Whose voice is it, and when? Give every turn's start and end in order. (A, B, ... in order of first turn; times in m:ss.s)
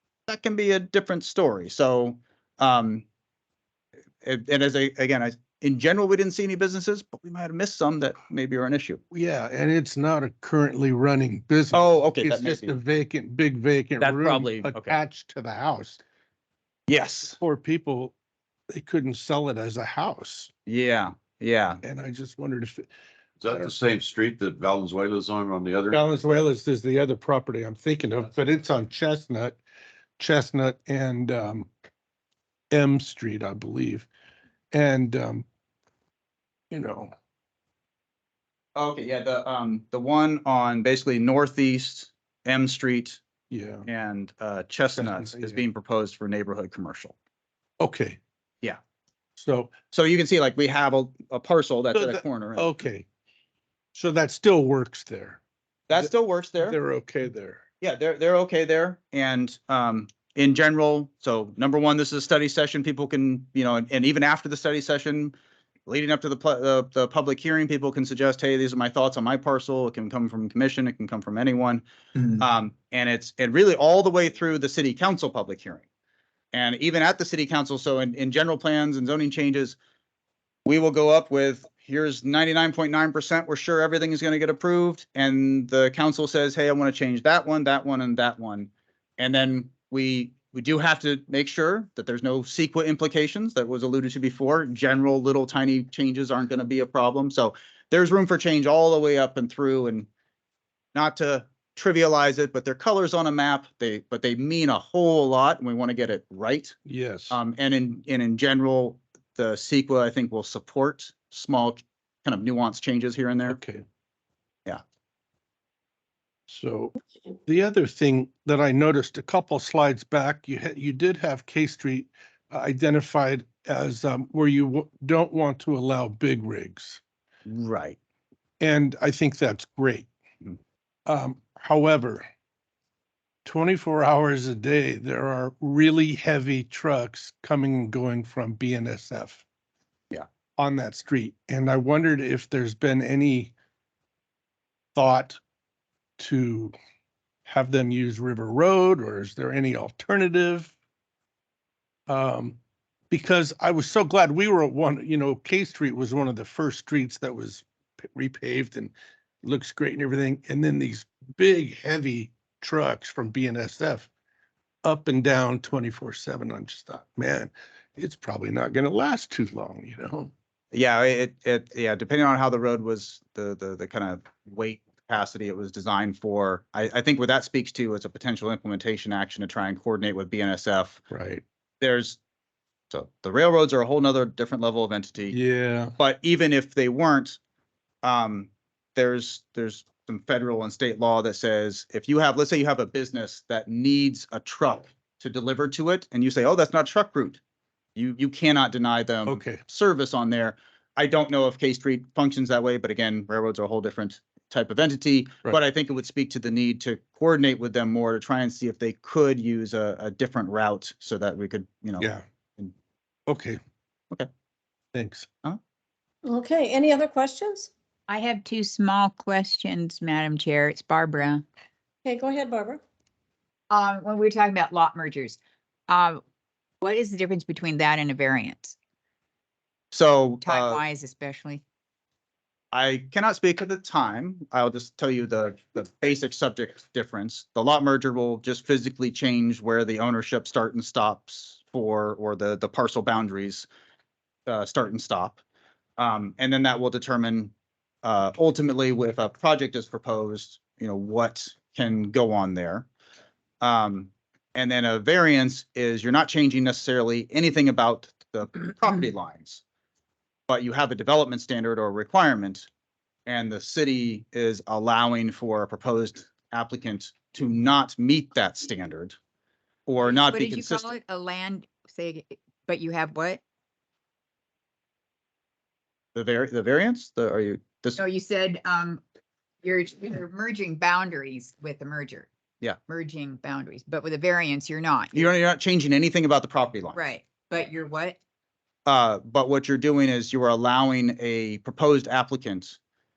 0:00.3-0:03.0 A
0:04.2-0:09.0 A
0:09.1-0:16.0 B
0:11.7-0:12.7 A
0:14.0-0:15.0 A
0:16.9-0:17.4 A
0:17.4-0:18.1 B
0:18.7-0:20.5 B
0:20.7-0:21.8 A
0:21.8-0:22.9 B
0:23.4-0:26.0 C
0:25.9-0:29.6 B
0:30.2-0:31.7 B
0:32.7-0:34.1 B
0:34.7-0:35.4 B
0:36.7-0:37.1 B
0:38.8-0:43.2 A
0:43.5-0:43.9 B
0:43.8-0:47.1 A
0:45.0-0:45.6 B
0:47.8-0:48.2 B
0:49.4-0:49.7 B
0:49.9-0:52.7 A
0:51.9-0:53.0 B
0:53.9-0:55.4 B
0:55.9-0:56.8 A
0:56.6-0:57.6 B
0:57.8-1:05.3 A
1:05.9-1:15.8 A
1:16.5-1:19.8 A
1:20.6-1:40.1 A
1:40.9-1:46.7 A
1:46.8-1:47.4 B
1:47.3-1:53.6 A
1:53.5-1:53.8 B
1:56.5-2:07.0 B
2:07.4-2:08.0 A
2:08.6-2:10.1 B
2:11.1-2:12.2 B
2:13.4-2:19.4 B
2:20.6-2:23.5 B
2:24.9-2:25.4 B
2:26.2-2:26.7 B
2:27.4-2:30.7 B
2:32.1-2:32.6 B
2:33.1-2:44.1 B
2:44.8-2:50.3 B
2:50.7-3:01.0 A
3:01.1-3:01.4 B
3:01.8-3:02.2 A
3:02.9-3:05.4 A
3:05.3-3:05.9 B
3:06.0-3:07.4 A
3:08.0-3:17.4 A
3:18.0-3:32.0 A
3:19.3-3:19.6 B
3:32.0-3:32.2 B
3:33.3-3:33.6 B
3:34.9-3:35.3 B
3:36.2-3:37.7 D
3:38.1-3:41.4 E
3:42.0-3:42.8 D
3:43.7-3:46.2 E
3:46.8-3:48.7 E
3:49.9-3:50.8 A
3:50.4-3:51.6 E
3:52.7-4:03.7 A
4:04.5-4:05.4 A
4:06.0-4:07.5 A
4:08.0-4:12.9 A
4:13.6-4:19.6 A
4:20.5-4:22.7 A
4:23.2-4:29.1 A
4:29.8-4:30.9 A
4:30.1-4:33.4 E
4:36.1-4:38.0 A
4:38.0-4:39.0 E
4:39.6-4:42.3 E
4:42.9-4:45.3 E
4:45.1-4:47.0 A
4:46.9-4:48.2 E
4:48.8-4:52.8 A